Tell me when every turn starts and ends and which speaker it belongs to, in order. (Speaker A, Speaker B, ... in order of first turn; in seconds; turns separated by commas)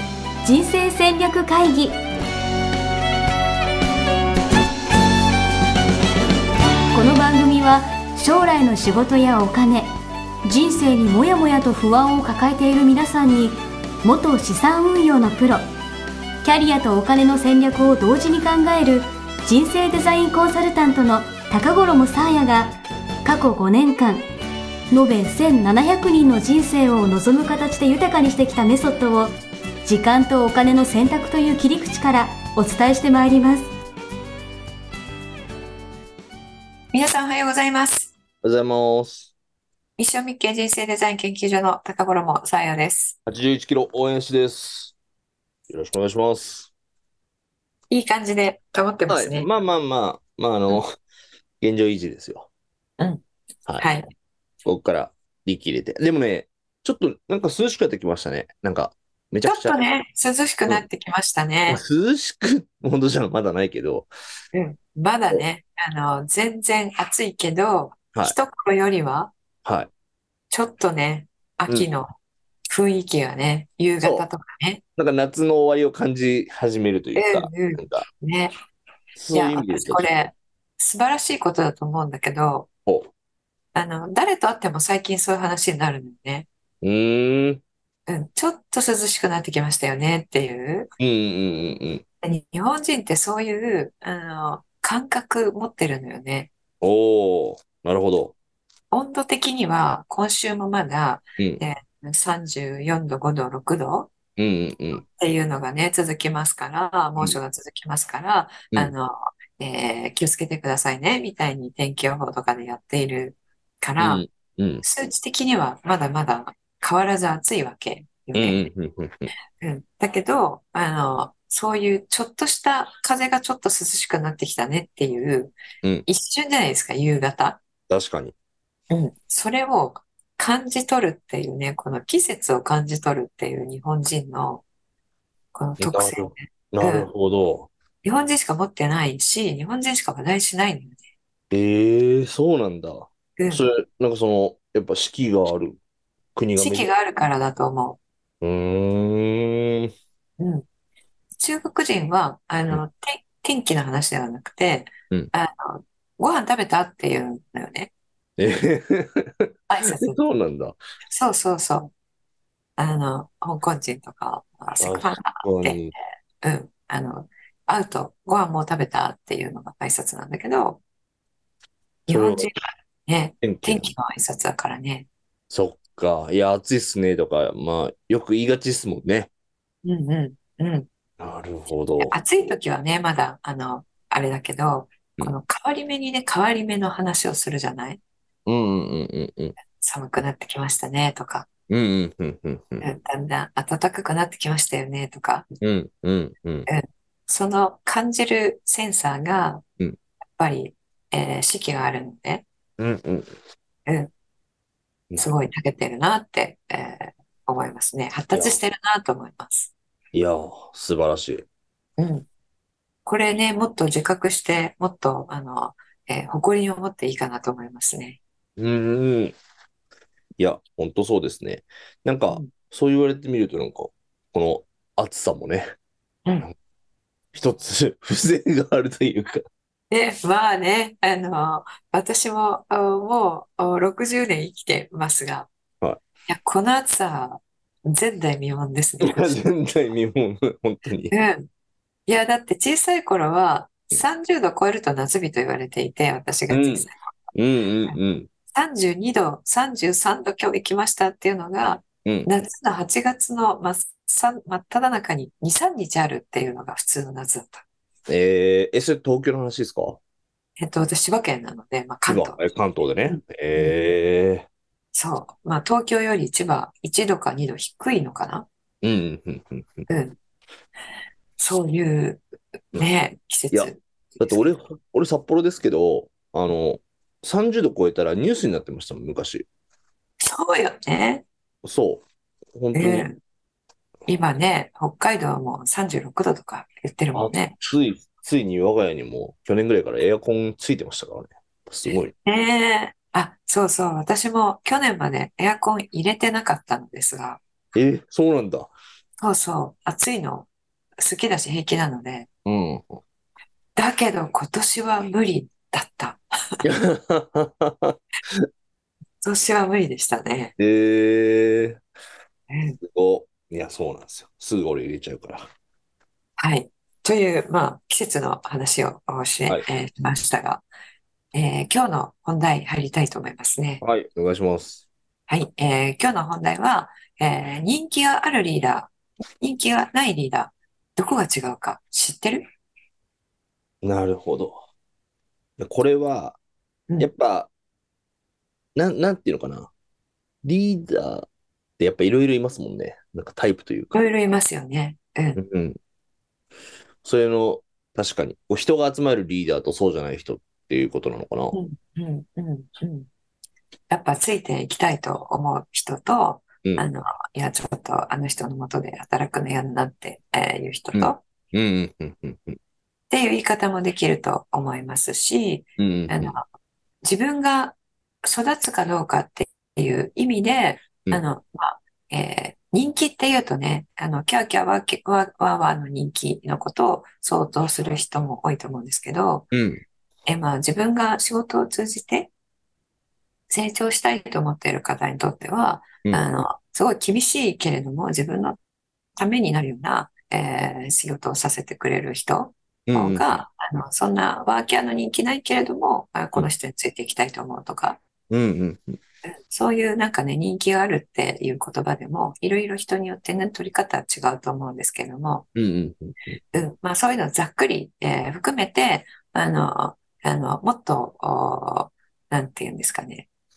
Speaker A: 0.4-2.0, Speaker A: 6.9-9.9, Speaker A: 10.4-15.7, Speaker A: 16.4-24.2, Speaker A: 24.9-29.3, Speaker A: 29.8-33.7, Speaker B: 36.9-38.1, Speaker C: 38.4-39.3, Speaker B: 40.0-43.1, Speaker C: 43.2-44.9, Speaker C: 45.7-46.7, Speaker B: 47.9-49.5, Speaker C: 49.1-50.9, Speaker C: 51.6-52.5, Speaker B: 53.8-54.1, Speaker C: 54.6-59.8, Speaker B: 59.5-61.8, Speaker C: 61.7-64.1, Speaker B: 64.5-69.3, Speaker C: 69.6-69.9, Speaker B: 70.5-72.1, Speaker B: 72.7-74.8, Speaker C: 74.0-74.3, Speaker C: 75.0-78.0, Speaker B: 77.1-78.5, Speaker C: 79.2-80.1, Speaker B: 79.3-82.7, Speaker C: 82.8-83.1, Speaker B: 83.7-86.5, Speaker C: 86.8-87.6, Speaker B: 88.1-90.9, Speaker C: 91.0-92.0, Speaker B: 92.2-96.5, Speaker C: 96.8-98.3, Speaker B: 98.9-104.1, Speaker C: 104.4-105.0, Speaker B: 105.0-114.2, Speaker C: 114.0-114.8, Speaker B: 114.8-118.7, Speaker C: 118.3-119.3, Speaker B: 119.6-127.6, Speaker C: 127.9-128.3, Speaker B: 128.9-134.6, Speaker B: 135.5-137.1, Speaker C: 135.8-137.7, Speaker B: 138.0-141.0, Speaker C: 141.5-145.8, Speaker B: 143.4-143.7, Speaker C: 146.3-146.9, Speaker B: 146.6-148.0, Speaker C: 148.4-149.9, Speaker B: 150.4-150.6, Speaker B: 151.3-157.9, Speaker C: 158.4-160.8, Speaker B: 159.7-160.2, Speaker B: 161.1-161.9, Speaker B: 162.8-165.8, Speaker C: 164.8-165.9, Speaker B: 166.4-170.8, Speaker C: 172.1-172.5, Speaker B: 172.1-175.1, Speaker C: 173.4-173.9, Speaker C: 175.5-179.3, Speaker B: 179.8-180.8, Speaker C: 181.2-182.2, Speaker B: 182.0-188.0, Speaker C: 188.4-189.6, Speaker B: 189.8-191.5, Speaker C: 191.7-192.9, Speaker B: 192.8-195.4, Speaker C: 195.6-196.7, Speaker B: 196.7-199.6, Speaker B: 200.3-202.4, Speaker C: 202.8-203.3, Speaker B: 205.2-209.7, Speaker C: 208.3-208.6, Speaker C: 210.1-211.4, Speaker B: 212.0-212.2, Speaker B: 213.1-218.2, Speaker C: 218.6-219.3, Speaker C: 220.4-225.7, Speaker C: 227.3-229.4, Speaker B: 229.9-235.5, Speaker B: 236.3-239.4, Speaker C: 239.0-241.1, Speaker B: 241.1-241.5, Speaker B: 242.1-247.1, Speaker C: 246.5-248.3, Speaker B: 248.5-257.6, Speaker C: 258.1-260.0, Speaker B: 260.6-262.4, Speaker C: 262.1-264.5, Speaker B: 263.1-263.8, Speaker B: 264.9-268.4, Speaker C: 268.8-269.9, Speaker B: 269.9-270.2, Speaker B: 271.4-272.2, Speaker B: 272.7-274.4, Speaker C: 273.5-279.4, Speaker B: 280.2-281.2, Speaker C: 281.6-283.1, Speaker B: 282.7-283.2, Speaker B: 284.1-287.5, Speaker C: 287.1-292.1, Speaker B: 292.2-297.4, Speaker C: 297.7-298.7, Speaker B: 299.2-302.3, Speaker C: 302.4-303.0, Speaker B: 303.8-306.6, Speaker C: 306.6-308.4, Speaker B: 309.2-310.5, Speaker C: 310.6-311.8, Speaker B: 312.5-312.8, Speaker C: 312.8-315.5, Speaker B: 316.4-320.6, Speaker B: 321.3-323.8, Speaker C: 323.8-324.8, Speaker B: 325.3-332.4, Speaker C: 333.8-334.6, Speaker C: 335.6-336.4, Speaker C: 337.0-337.5, Speaker C: 338.8-339.7, Speaker C: 340.4-341.2, Speaker C: 341.8-343.9, Speaker B: 343.9-345.4, Speaker C: 345.4-345.8, Speaker C: 347.0-351.6, Speaker B: 351.5-353.1, Speaker B: 353.9-361.2, Speaker C: 360.9-362.6, Speaker B: 363.1-366.4, Speaker C: 365.8-366.4, Speaker B: 367.0-379.5, Speaker C: 379.5-379.8, Speaker B: 380.3-382.3, Speaker B: 383.5-388.6, Speaker B: 389.1-398.0, Speaker C: 392.9-393.4, Speaker C: 398.3-399.0, Speaker B: 399.5-405.5, Speaker C: 405.5-406.4, Speaker B: 406.5-413.3